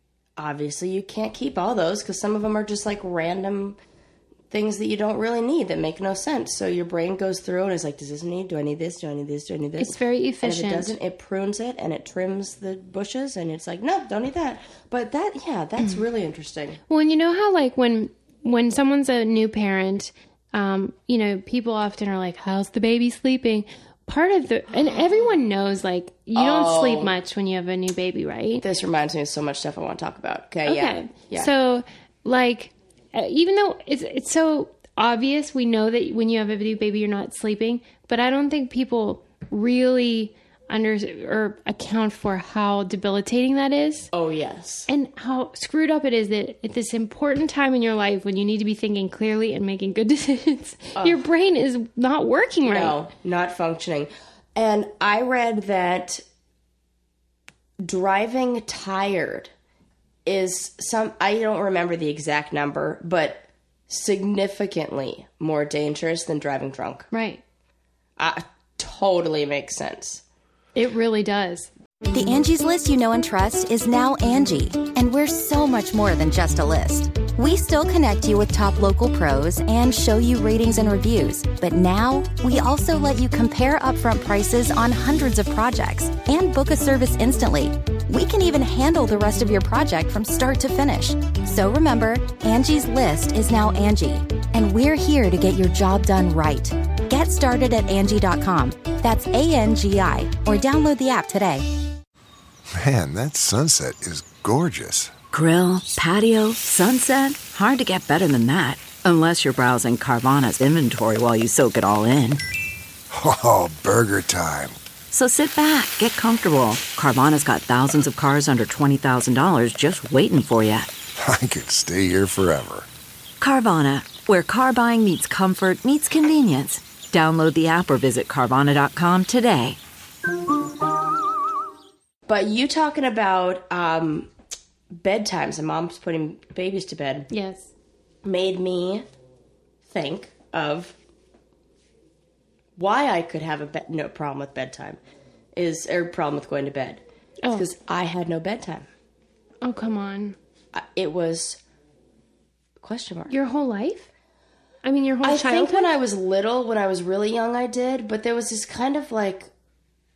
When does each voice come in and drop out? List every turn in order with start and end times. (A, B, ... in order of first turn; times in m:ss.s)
0:00.4-0:03.8 A
0:04.5-0:16.8 A
0:09.8-0:11.0 B
0:16.9-0:28.6 B
0:26.3-0:27.2 A
0:28.6-0:31.5 A
0:30.6-0:44.1 B
0:44.1-0:44.9 A
0:44.9-0:53.0 B
0:50.9-0:51.2 A
0:52.7-0:56.2 A
0:57.8-0:59.5 A
1:00.2-1:07.1 A
1:07.1-1:07.4 B
1:08.2-1:10.2 A
1:10.7-1:11.7 B
1:12.1-1:41.6 C
1:42.7-1:45.1 D
1:45.3-1:52.4 E
1:53.1-1:54.8 D
1:55.1-2:00.9 E
2:01.2-2:02.9 D
2:03.4-2:09.8 E
2:12.3-2:14.3 A
2:14.9-2:17.3 A
2:17.3-2:17.7 B
2:18.2-2:19.0 A
2:19.8-2:21.0 A
2:22.8-2:25.0 A
2:25.5-2:28.9 A
2:27.4-2:27.7 B
2:29.6-2:30.4 B
2:30.7-2:31.6 A
2:32.8-2:33.3 A
2:33.3-2:34.1 B
2:34.8-2:35.9 B
2:35.2-2:39.5 A